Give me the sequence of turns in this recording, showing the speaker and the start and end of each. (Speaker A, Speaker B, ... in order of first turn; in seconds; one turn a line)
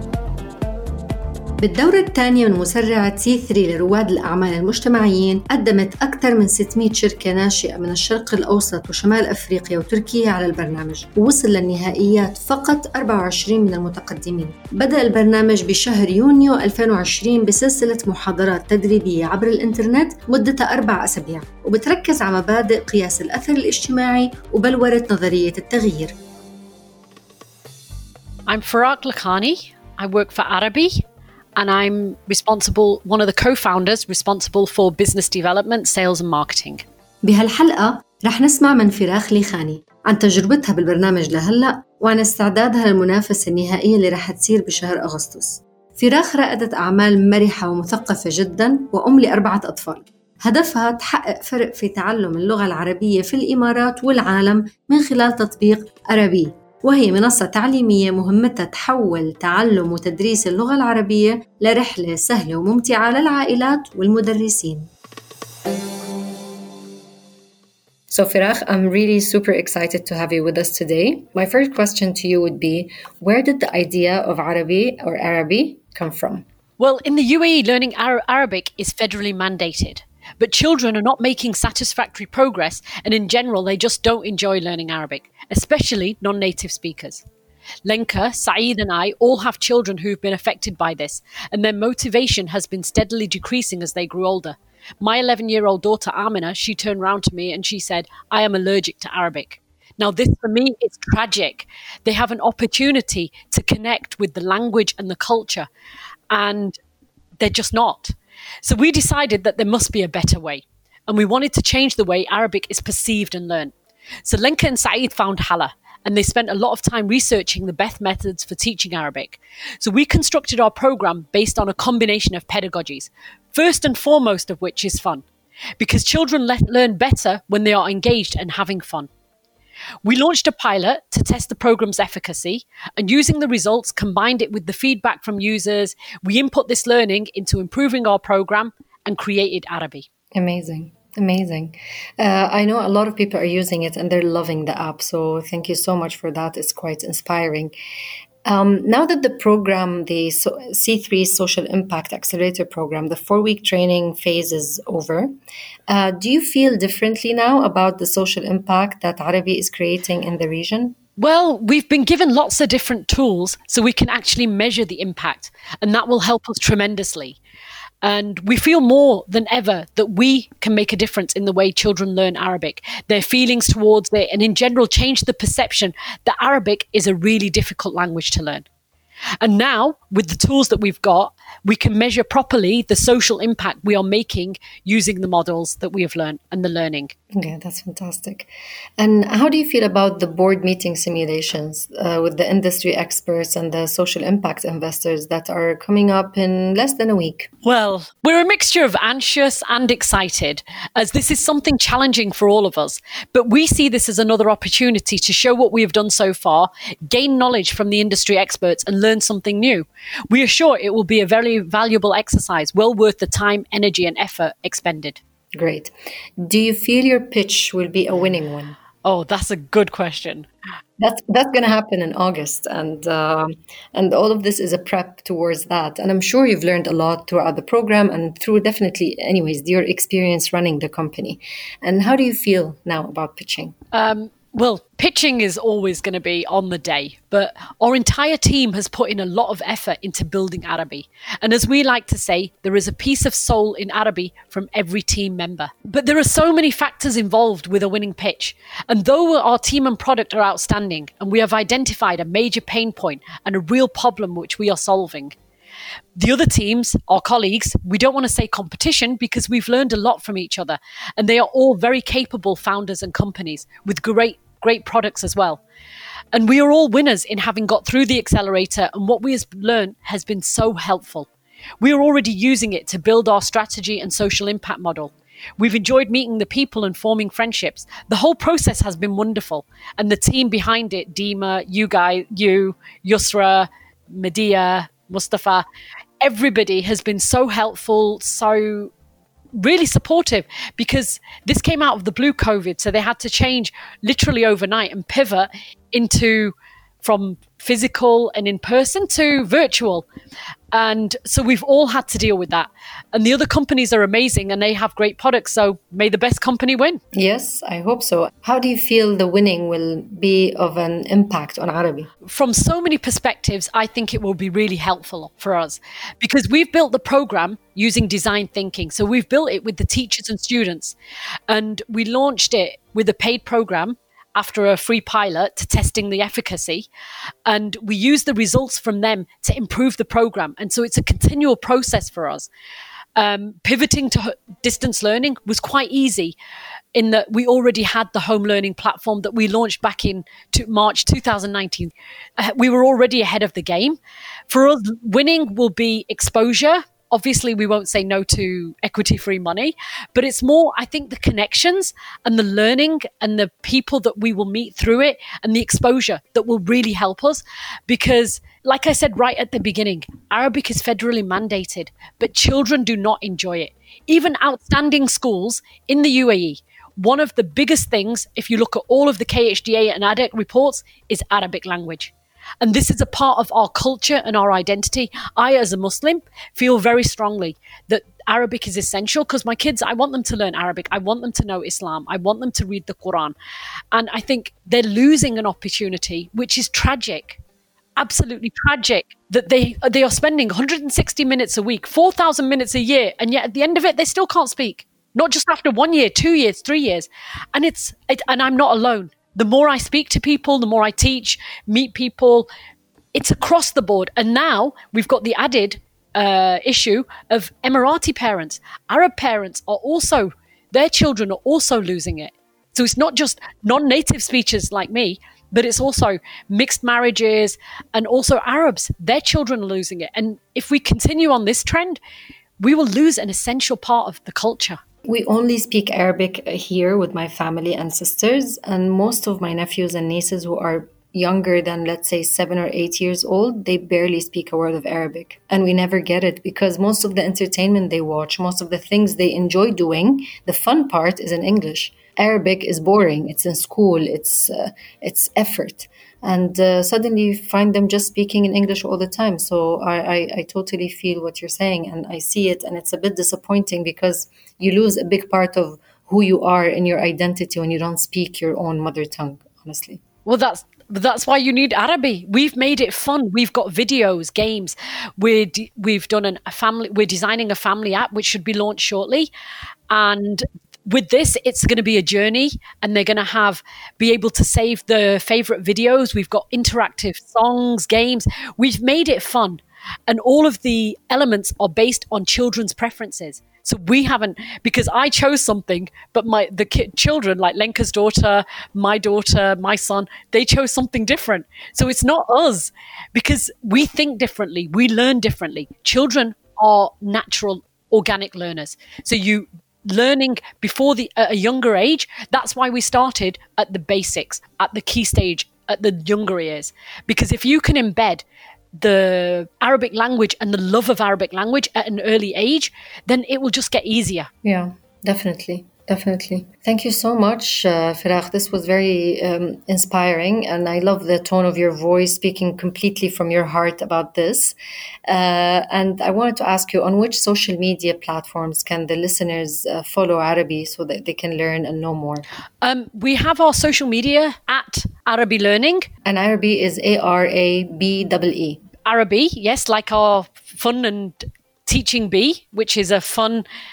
Speaker A: 1.6-26.1
Speaker B: 28.5-31.0
Speaker B: 31.6-36.8
Speaker A: 37.2-64.9
Speaker A: 68.1-76.5
Speaker B: 76.8-87.2
Speaker B: 87.8-105.7
Speaker B: 106.3-106.8
Speaker B: 107.4-125.2
Speaker B: 125.8-129.1
Speaker B: 130.0-140.1
Speaker A: 140.3-147.7
Speaker A: 148.5-155.3
Speaker A: 155.9-161.0
Speaker B: 161.2-167.4
Speaker B: 168.0-178.7
Speaker B: 179.4-187.1
Speaker A: 187.3-197.5
Speaker B: 197.6-215.2
Speaker A: 215.6-218.8
Speaker B: 219.0-220.5
Speaker A: 221.0-233.8
Speaker B: 233.9-255.4
Speaker B: 256.2-265.6
Speaker B: 266.3-271.3
Speaker B: 271.8-285.6
Speaker B: 286.2-288.9
Speaker B: 289.6-300.1
Speaker B: 300.7-307.0
Speaker A: 307.1-312.1
Speaker B: 312.3-321.0
Speaker B: 321.5-326.9
Speaker B: 327.5-332.5
Speaker B: 333.2-336.4
Speaker B: 336.9-344.0
Speaker B: 344.5-383.4
Speaker B: 383.9-387.4
Speaker B: 388.0-402.5
Speaker B: 403.1-422.0
Speaker B: 422.6-424.8
Speaker A: 425.1-460.0
Speaker B: 460.3-469.3
Speaker B: 469.9-508.2
Speaker B: 508.8-514.3
Speaker A: 514.4-524.6
Speaker A: 525.1-532.3
Speaker B: 532.6-535.9
Speaker A: 536.0-538.6
Speaker B: 538.9-543.5